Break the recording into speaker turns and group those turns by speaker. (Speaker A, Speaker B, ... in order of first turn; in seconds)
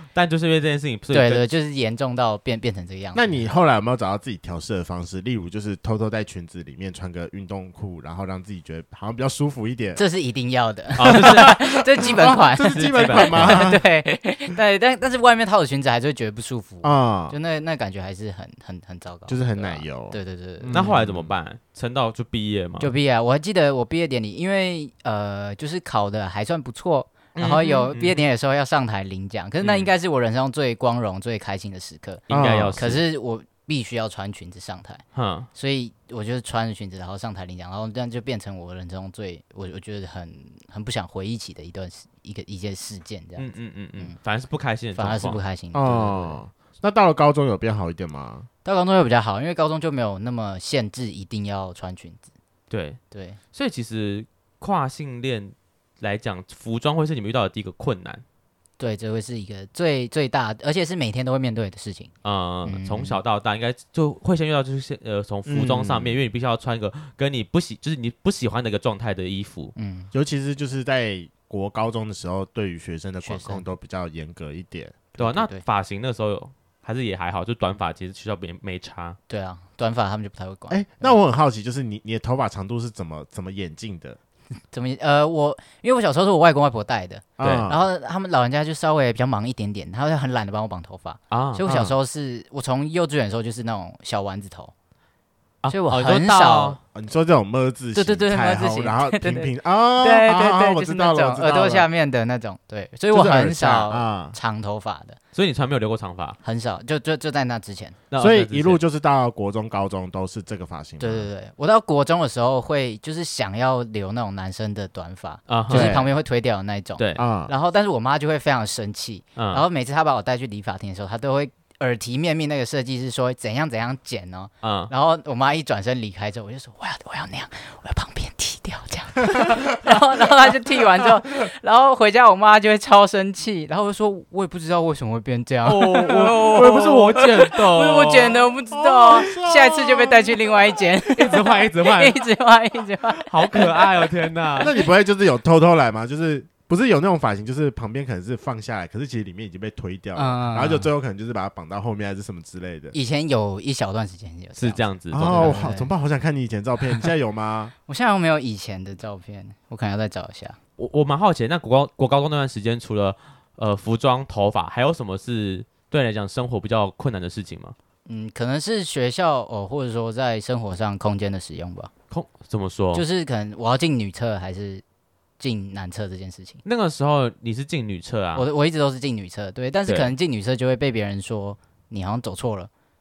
Speaker A: 0.1-1.5, 11.0-11.6, 12.7-13.6, 20.7-22.9, 27.4-28.2, 29.6-29.9, 32.3-33.0, 35.1-35.5, 43.4-45.4, 52.7-53.0, 53.5-58.2, 62.2-69.7, 75.2-79.2, 87.4-87.7, 91.3-91.6, 95.6-96.8, 105.3-106.4, 108.1-108.8, 115.5-116.0, 117.0-117.2, 119.4-119.6, 124.6-124.9, 135.6-138.5, 141.2-142.2, 143.2-144.7, 154.6-155.6, 160.8-167.8, 172.1-173.1, 176.6-178.5, 179.9-180.1
Speaker B: 1.1-3.3, 10.0-20.9, 22.8-32.2, 32.8-35.0, 35.5-44.2, 45.0-46.4, 48.6-52.3, 53.1-53.4, 58.8-62.1, 62.6-63.2, 69.8-70.1, 73.2-73.6, 75.1-75.6, 79.3-81.2, 84.7-94.7, 95.7-96.8, 98.0-105.2, 106.4-108.0, 111.0-144.0, 150.1-150.9, 152.9-155.9, 157.9-160.6, 168.1-171.9, 172.9-174.8, 175.4-176.6, 178.3-182.7
Speaker C: 3.1-10.0, 11.1-13.8, 16.8-17.4, 19.3-21.3, 32.3-33.0, 45.7-48.5, 65.5-66.2, 70.1-75.1, 80.7-84.2, 87.4-87.8, 91.7-92.0, 96.9-101.9, 103.1-104.4, 108.2-111.3, 115.7-116.1, 117.2-117.5, 138.7-140.6, 144.6-152.9, 155.1-157.7